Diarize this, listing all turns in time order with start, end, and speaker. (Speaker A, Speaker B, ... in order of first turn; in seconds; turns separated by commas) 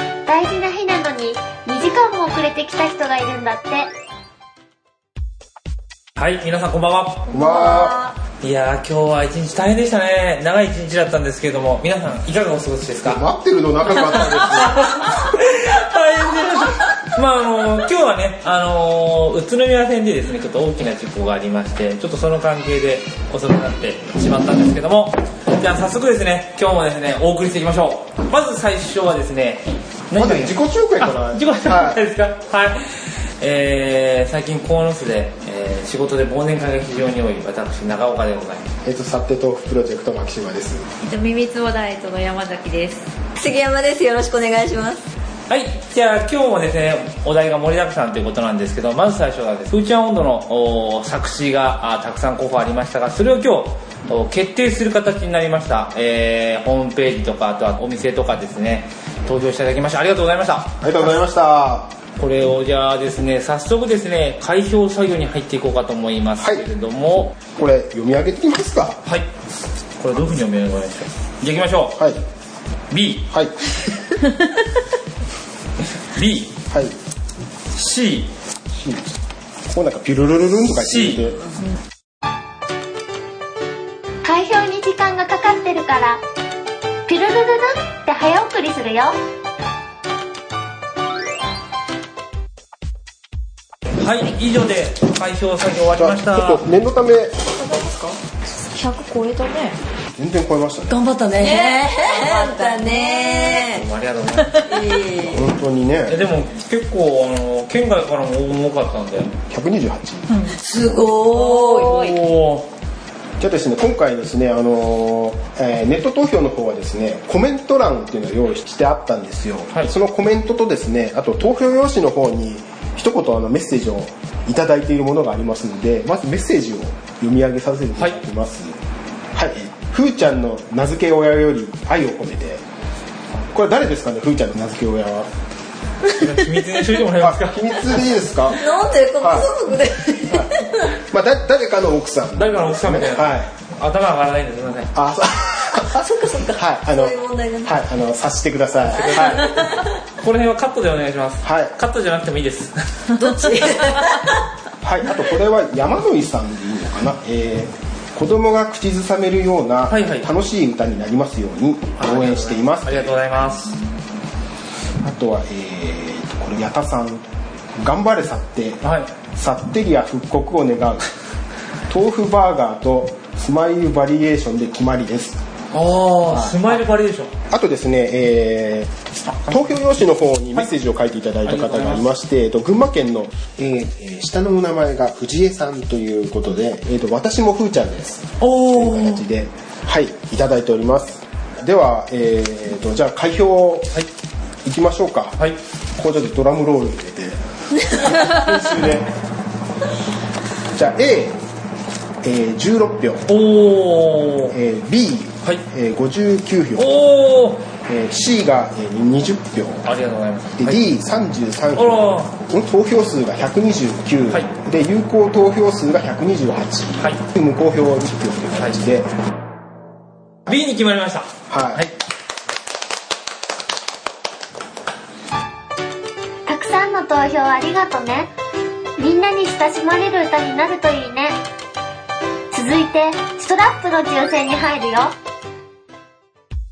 Speaker A: 0.2-3.9, Speaker B: 6.2-7.2, Speaker C: 7.3-8.0, Speaker D: 7.3-8.1, Speaker B: 8.4-13.2, Speaker C: 13.0-15.0, Speaker B: 14.0-32.8, Speaker C: 30.1-32.0, Speaker B: 33.4-38.7, Speaker C: 38.8-40.9, Speaker D: 41.0-43.1, Speaker E: 43.4-45.0, Speaker B: 45.5-60.7, Speaker C: 60.8-61.9, Speaker B: 62.2-67.3, Speaker C: 66.4-66.6, Speaker C: 67.5-69.0, Speaker B: 70.0-72.0, Speaker C: 72.0-72.2, Speaker B: 72.9-73.2, Speaker C: 73.3-73.5, Speaker B: 76.1-76.5, Speaker C: 76.7-77.0, Speaker B: 77.7-78.3, Speaker C: 78.7-79.1, Speaker C: 79.7-81.4, Speaker B: 80.8-81.3, Speaker A: 84.2-86.2, Speaker A: 87.0-89.2, Speaker B: 94.0-96.6, Speaker C: 96.0-97.3, Speaker D: 98.6-99.8, Speaker C: 100.1-101.0, Speaker E: 100.9-103.8, Speaker D: 101.4-103.8, Speaker B: 103.7-104.7, Speaker E: 104.6-105.5, Speaker C: 105.2-106.2, Speaker B: 106.1-109.3, Speaker C: 109.5-111.0, Speaker E: 110.4-112.1, Speaker B: 111.4-112.7, Speaker D: 111.8-112.2, Speaker C: 113.4-128.8, Speaker C: 129.3-132.6, Speaker C: 133.5-135.3, Speaker B: 136.1-138.1, Speaker C: 137.2-138.6, Speaker E: 138.5-140.9, Speaker C: 139.2-139.5, Speaker C: 140.3-143.5, Speaker B: 142.4-144.9, Speaker C: 144.9-149.6, Speaker E: 145.9-147.8, Speaker B: 148.9-153.7, Speaker C: 151.4-151.7, Speaker E: 153.2-154.3, Speaker C: 154.8-163.3, Speaker B: 159.9-160.3, Speaker B: 162.0-163.8, Speaker C: 165.0-167.2, Speaker C: 167.8-171.1, Speaker B: 168.8-169.1, Speaker C: 171.9-175.4, Speaker B: 175.7-177.3, Speaker C: 177.5-193.9, Speaker B: 181.4-182.1, Speaker B: 188.4-189.2, Speaker C: 194.6-195.4, Speaker C: 195.9-199.1, Speaker C: 200.7-201.4, Speaker C: 202.2-203.3, Speaker B: 203.3-204.5, Speaker C: 204.5-207.0, Speaker B: 206.8-207.7, Speaker C: 207.9-209.9, Speaker B: 209.8-210.8, Speaker C: 210.6-219.1, Speaker B: 211.7-212.3, Speaker B: 220.4-221.9, Speaker C: 221.5-221.9, Speaker A: 226.4-228.3, Speaker A: 229.0-231.4, Speaker A: 232.5-235.1